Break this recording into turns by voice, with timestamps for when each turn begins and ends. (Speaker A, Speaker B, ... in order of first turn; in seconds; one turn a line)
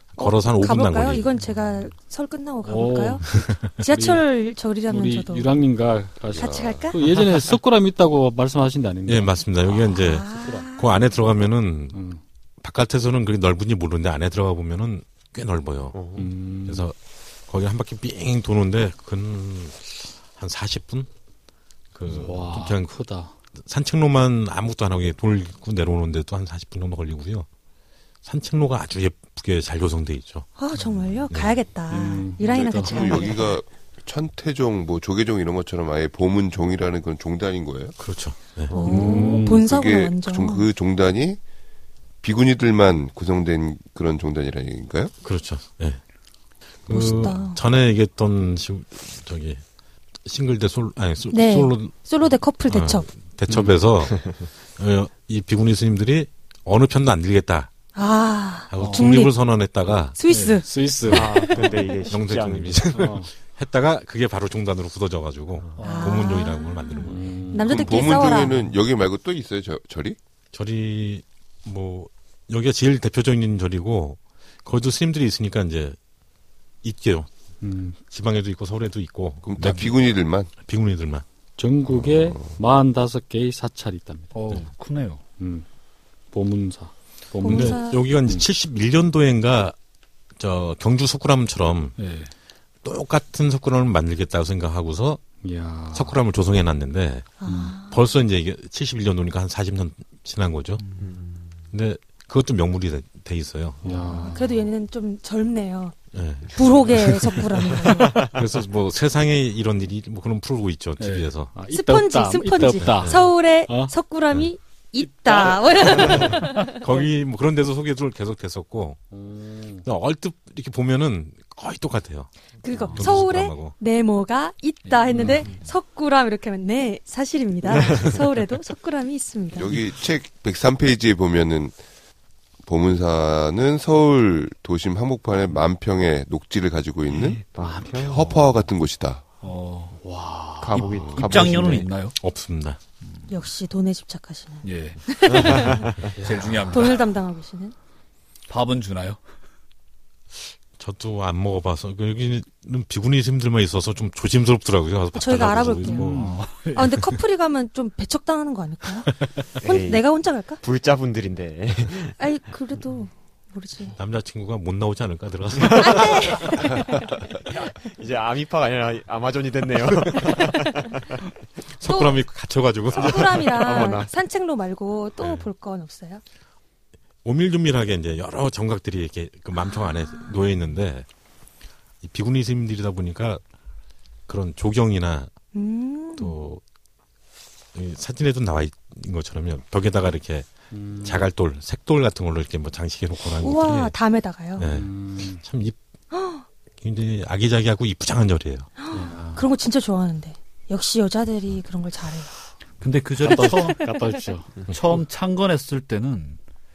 Speaker A: 0.1-1.3
Speaker B: 0.2-3.2
Speaker C: 2.6-4.2
Speaker B: 3.7-5.5
Speaker C: 4.9-10.6
Speaker D: 6.3-6.9
Speaker B: 6.3-7.0
Speaker A: 9.1-12.0
Speaker B: 9.9-11.0
Speaker C: 11.9-12.2
Speaker A: 12.6-16.0
Speaker E: 15.9-16.3
Speaker C: 16.2-16.9
Speaker A: 16.7-16.9
Speaker A: 17.5-21.1
Speaker A: 21.9-22.9
Speaker C: 22.1-23.3
Speaker A: 23.6-27.5
Speaker A: 28.2-30.5
Speaker B: 30.6-33.5
Speaker A: 31.3-31.6
Speaker C: 31.9-33.3
Speaker D: 32.5-38.0
Speaker A: 38.0-39.0
Speaker E: 38.7-39.4
Speaker B: 38.7-40.7
Speaker C: 38.9-39.6
Speaker D: 39.5-41.4
Speaker D: 42.2-45.1
Speaker A: 45.2-46.0
Speaker A: 46.9-49.6
Speaker B: 46.9-47.6
Speaker A: 50.2-51.9
Speaker B: 51.3-53.1
Speaker A: 52.7-57.7
Speaker E: 54.1-54.3
Speaker B: 58.0-59.3
Speaker A: 58.7-60.1
Speaker B: 60.1-61.6
Speaker C: 60.3-61.7
Speaker E: 61.1-63.0
Speaker A: 62.1-67.4
Speaker C: 62.9-63.3
Speaker F: 65.8-66.2
Speaker B: 65.8-68.6
Speaker C: 67.0-67.8
Speaker D: 67.6-70.2
Speaker A: 70.5-76.0
Speaker A: 76.8-77.3
Speaker C: 77.6-78.0
Speaker A: 78.1-81.2
Speaker D: 79.4-80.5
Speaker C: 81.6-84.6
Speaker D: 81.9-82.6
Speaker F: 84.3-85.2
Speaker C: 85.4-85.6
Speaker C: 86.3-88.4
Speaker B: 87.4-88.0
Speaker A: 87.4-89.8
Speaker A: 90.4-91.9
Speaker F: 92.0-92.3
Speaker A: 92.8-95.2
Speaker C: 95.4-96.2
Speaker A: 95.9-100.8
Speaker B: 97.4-98.0
Speaker C: 97.5-97.8
Speaker F: 100.8-101.1
Speaker E: 101.0-101.5
Speaker A: 101.7-104.1
Speaker C: 103.8-104.6
Speaker B: 104.1-105.9
Speaker A: 106.1-111.5
Speaker B: 106.5-108.2
Speaker E: 108.1-108.3
Speaker C: 111.0-113.9
Speaker B: 111.7-116.8
Speaker A: 112.8-113.2
Speaker C: 115.1-116.2
Speaker A: 116.7-119.0
Speaker C: 119.1-119.8
Speaker A: 119.8-122.3
Speaker B: 122.6-129.8
Speaker F: 122.8-123.2
Speaker A: 122.9-123.7
Speaker F: 124.9-125.4
Speaker E: 125.2-125.5
Speaker E: 127.7-128.1
Speaker D: 129.5-131.7
Speaker D: 132.6-137.4
Speaker E: 137.1-138.7
Speaker C: 137.6-137.9
Speaker D: 137.9-139.2
Speaker F: 139.4-140.0
Speaker C: 140.0-140.8
Speaker E: 140.6-141.9
Speaker F: 140.7-142.1
Speaker A: 142.2-142.8
Speaker B: 143.3-145.9
Speaker F: 144.6-145.7
Speaker E: 145.3-146.1
Speaker C: 146.2-146.9
Speaker F: 146.2-147.0
Speaker B: 146.7-147.7
Speaker F: 148.5-149.2
Speaker A: 150.8-156.2
Speaker B: 155.1-156.1
Speaker C: 155.8-156.4
Speaker F: 156.0-157.1
Speaker B: 156.7-160.6
Speaker E: 159.6-160.1
Speaker E: 160.6-162.1
Speaker B: 162.2-163.9
Speaker A: 164.0-166.2
Speaker B: 165.7-167.2
Speaker E: 167.8-171.2
Speaker B: 170.4-170.9
Speaker A: 171.8-173.7
Speaker B: 171.8-172.2
Speaker B: 172.9-176.2
Speaker E: 172.9-174.1
Speaker A: 177.2-181.1
Speaker B: 179.5-180.5
Speaker A: 182.0-183.4
Speaker A: 184.3-185.3
Speaker B: 185.5-186.3
Speaker A: 186.2-186.6
Speaker A: 187.7-190.5
Speaker C: 190.7-191.2
Speaker A: 191.0-193.9
Speaker B: 193.4-194.7
Speaker A: 194.6-195.8
Speaker C: 194.7-195.4
Speaker B: 196.1-196.4
Speaker A: 196.8-198.7
Speaker B: 198.8-202.3
Speaker C: 198.9-199.4
Speaker F: 202.8-203.8
Speaker C: 203.2-204.5
Speaker B: 203.4-204.2
Speaker F: 204.7-206.4